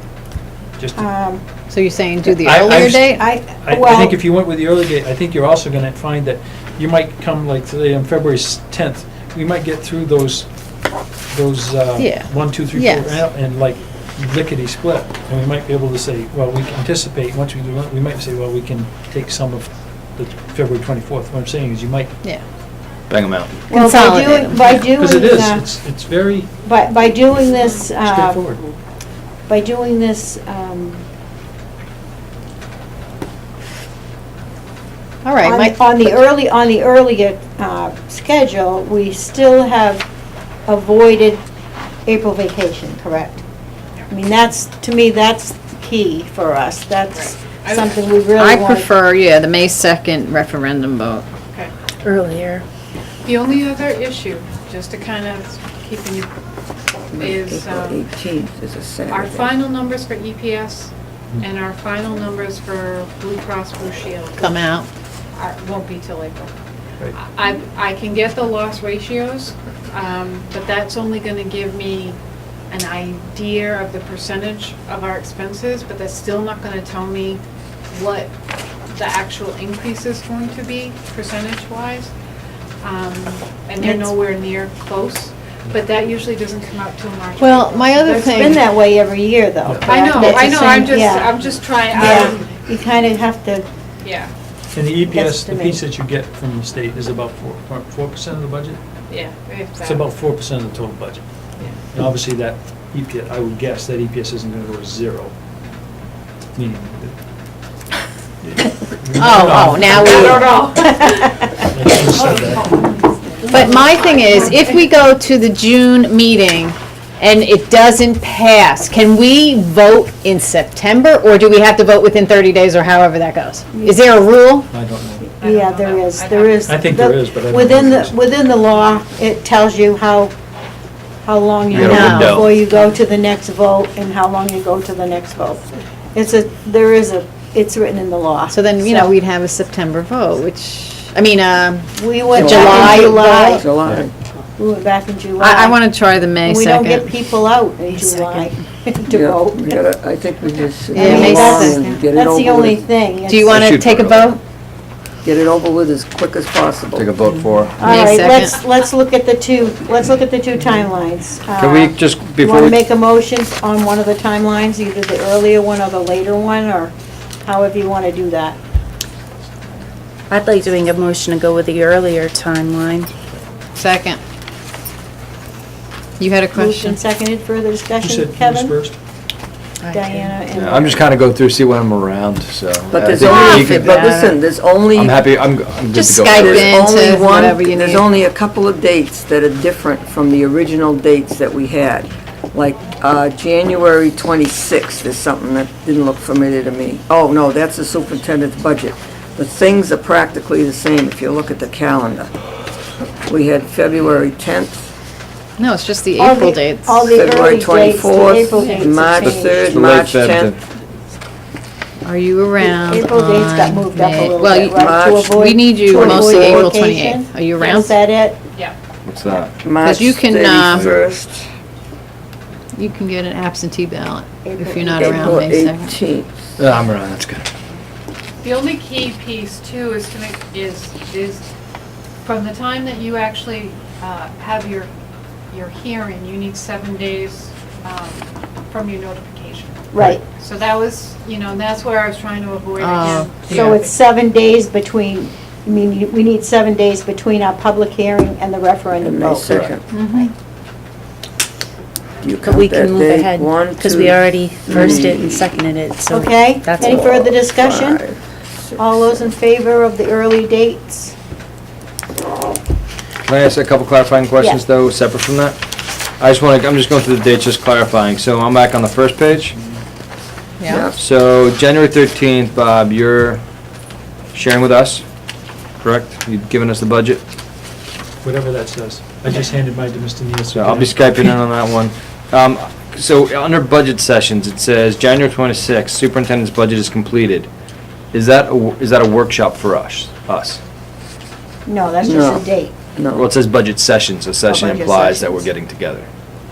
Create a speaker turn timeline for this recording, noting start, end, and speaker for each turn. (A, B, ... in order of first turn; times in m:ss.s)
0:00.8-0:01.1 A
0:01.0-0:01.4 B
0:01.7-0:03.2 C
0:02.3-0:10.5 A
0:02.7-0:04.2 B
0:11.3-0:22.2 A
0:12.0-0:13.2 C
0:23.1-0:23.6 D
0:23.7-0:25.6 B
0:23.7-0:24.9 C
0:24.8-0:26.6 A
0:26.6-0:28.5 B
0:28.0-0:28.6 A
0:29.5-0:31.0 B
0:35.2-0:35.7 C
0:35.4-0:40.1 B
0:40.6-0:41.4 B
0:42.0-0:43.4 B
0:44.1-0:48.9 B
0:47.1-0:47.9 E
0:48.4-0:51.2 C
0:52.0-0:52.6 F
0:53.2-0:56.3 E
0:57.1-0:58.0 E
0:57.1-0:59.6 G
0:59.1-1:04.6 E
1:04.4-1:04.9 C
1:05.3-1:06.5 E
1:07.1-1:12.2 E
1:12.7-1:17.4 E
1:17.9-1:18.3 E
1:18.9-1:22.1 E
1:22.8-1:28.1 E
1:23.8-1:24.1 B
1:27.4-1:28.6 C
1:28.0-1:31.4 B
1:29.8-1:32.5 E
1:31.9-1:33.6 B
1:34.0-1:34.3 E
1:34.7-1:38.8 A
1:35.1-1:35.8 B
1:39.1-1:40.1 E
1:39.8-1:41.2 A
1:41.8-1:45.3 A
1:46.5-1:47.2 A
1:48.4-1:50.6 A
1:49.2-1:50.6 C
1:50.0-1:54.7 E
1:51.6-1:52.8 A
1:53.4-2:04.7 C
2:03.7-2:04.0 B
2:04.7-2:05.3 A
2:05.4-2:06.8 E
2:05.4-2:10.3 B
2:06.7-2:08.1 A
2:11.2-2:19.1 B
2:11.7-2:12.6 D
2:11.8-2:12.4 C
2:18.5-2:23.6 C
2:21.9-2:23.7 B
2:22.3-2:24.1 G
2:24.6-2:25.8 B
2:25.4-2:27.1 C
2:26.4-2:29.8 B
2:27.9-2:28.4 F
2:29.1-2:32.9 G
2:30.9-2:32.0 C
2:30.9-2:33.6 B
2:33.3-2:34.4 C
2:33.5-2:34.4 D
2:35.2-2:37.2 G
2:37.0-2:37.8 D
2:37.8-2:46.9 B
2:37.8-2:38.6 C
2:41.6-2:42.8 D
2:47.4-2:48.6 B
2:50.3-2:53.1 F
2:53.8-2:54.2 C
2:56.2-2:57.0 C
2:56.5-2:58.8 B
2:58.0-2:59.0 A
2:59.8-3:00.6 F
2:59.8-3:01.1 B
3:00.6-3:04.0 D
3:02.9-3:05.3 G
3:03.2-3:04.4 C
3:04.9-3:06.8 D
3:05.9-3:08.0 C
3:06.3-3:22.3 G
3:23.2-3:24.9 G
3:25.6-3:27.1 C
3:26.2-3:29.8 B
3:27.1-3:30.5 G
3:28.6-3:29.1 C
3:29.2-3:30.6 D
3:32.0-3:37.9 C
3:32.6-3:38.4 B
3:34.7-3:36.7 G
3:39.0-3:39.6 D
3:39.6-3:41.4 G
3:39.8-3:40.9 C
3:40.7-3:41.0 D
3:42.7-3:46.0 C
3:44.4-3:45.4 B
3:45.0-3:46.6 G
3:46.6-3:47.4 D
3:48.4-3:51.4 E
3:52.2-3:54.9 E
3:55.5-4:03.9 E
3:59.9-4:00.2 B
4:02.8-4:03.8 C
4:03.5-4:09.7 B
4:09.0-4:09.8 G
4:09.9-4:10.3 C
4:12.2-4:15.5 G
4:12.4-4:17.1 F
4:16.1-4:18.0 B
4:16.8-4:19.3 G
4:18.8-4:21.1 B
4:23.3-4:25.6 D
4:24.4-4:24.6 B
4:26.2-4:29.6 D
4:29.5-4:29.8 A
4:30.6-4:30.8 C
4:30.7-4:31.0 G
4:31.0-4:33.4 D
4:34.3-4:35.0 D
4:35.8-4:37.2 D
4:38.2-4:41.2 A
4:40.5-4:47.5 D
4:48.1-4:50.6 D
4:51.6-4:52.7 B
4:52.0-4:53.3 G
4:53.1-4:56.1 D
4:54.5-4:55.5 B